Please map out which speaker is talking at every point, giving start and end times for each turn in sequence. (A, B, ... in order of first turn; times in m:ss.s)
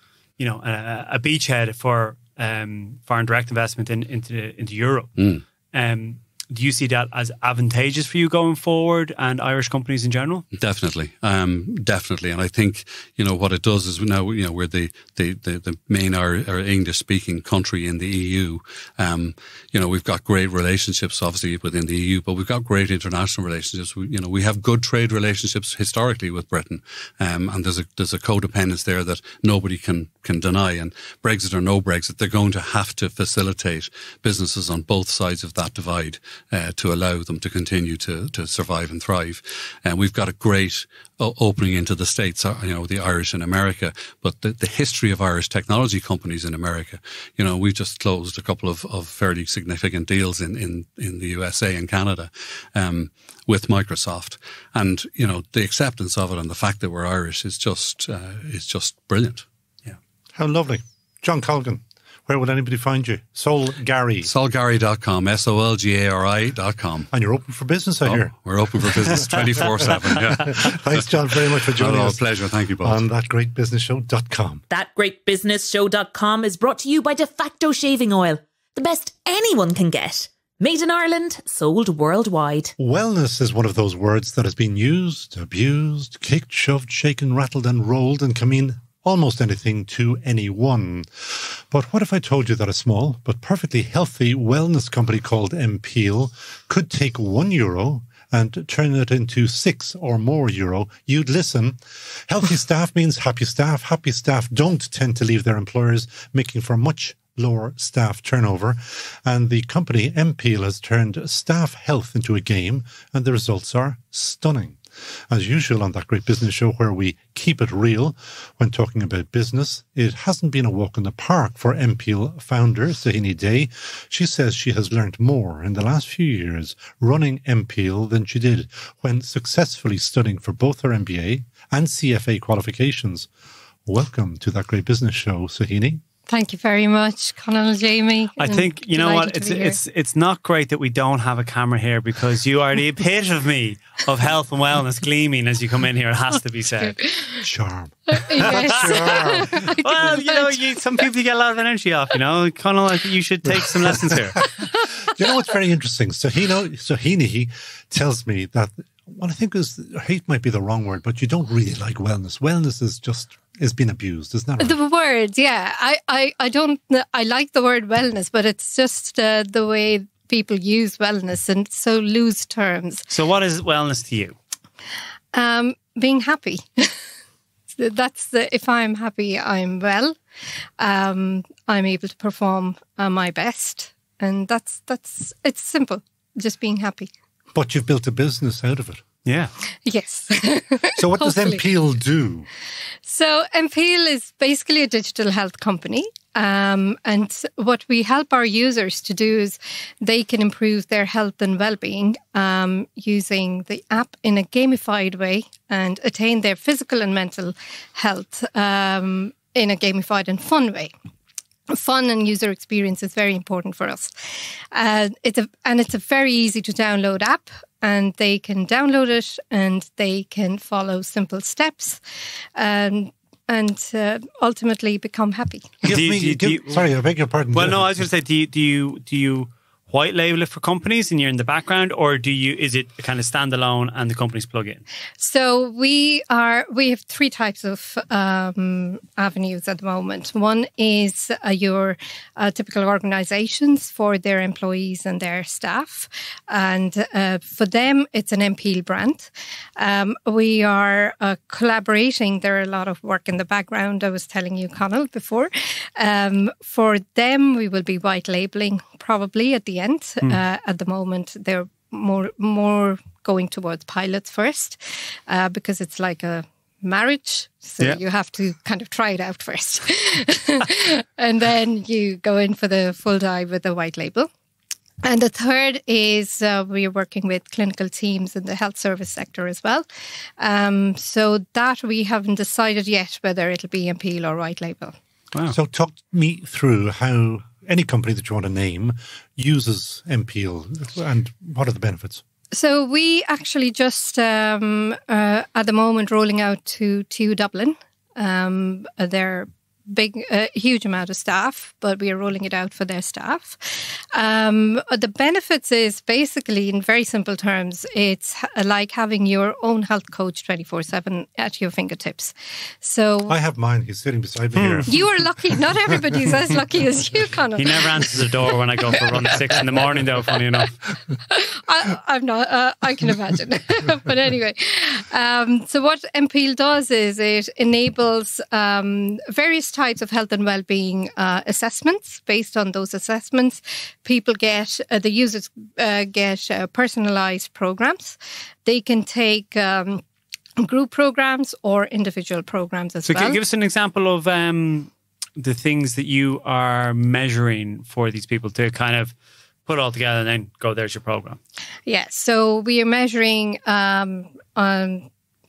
0:00.4-0:05.1 A
0:05.2-0:05.4 B
0:05.7-0:10.4 A
0:10.5-0:59.4 B
1:00.4-1:04.3 C
1:04.2-1:07.1 B
1:07.1-1:14.6 C
1:08.0-1:13.0 B
1:14.7-1:22.7 D
1:22.8-2:13.3 C
2:13.9-2:16.0 C
2:16.3-2:19.8 E
2:18.4-2:27.0 A
2:26.8-2:27.4 E
2:27.4-2:29.7 C
2:28.1-2:30.6 E
2:28.4-2:34.5 A
2:35.1-2:44.8 C
2:44.6-2:53.1 E
2:53.1-2:54.4 A
2:55.3-2:57.0 E
2:57.8-3:00.2 E
3:00.8-3:07.1 E
3:07.5-3:09.0 C
3:09.3-3:09.5 A
3:09.9-3:11.6 E
3:11.0-3:12.5 C
3:13.0-3:30.9 E
3:31.7-3:34.1 E
3:34.7-3:42.0 E
3:42.6-3:45.8 E
3:45.8-3:48.0 C
3:45.9-3:46.8 A
3:47.5-3:54.8 A
3:55.2-4:34.3 E
4:35.0-4:39.9 E
4:40.4-4:45.0 E
4:45.5-4:52.2 C
4:52.5-5:03.6 E
5:04.1-5:13.4 E
5:13.3-5:15.0 C
5:14.6-5:15.0 A
5:14.9-5:18.2 E
5:17.6-5:20.8 A
5:21.3-5:40.0 E
5:40.6-5:43.4 E
5:43.0-5:49.1 A
5:49.7-5:51.4 A
5:51.9-5:55.1 E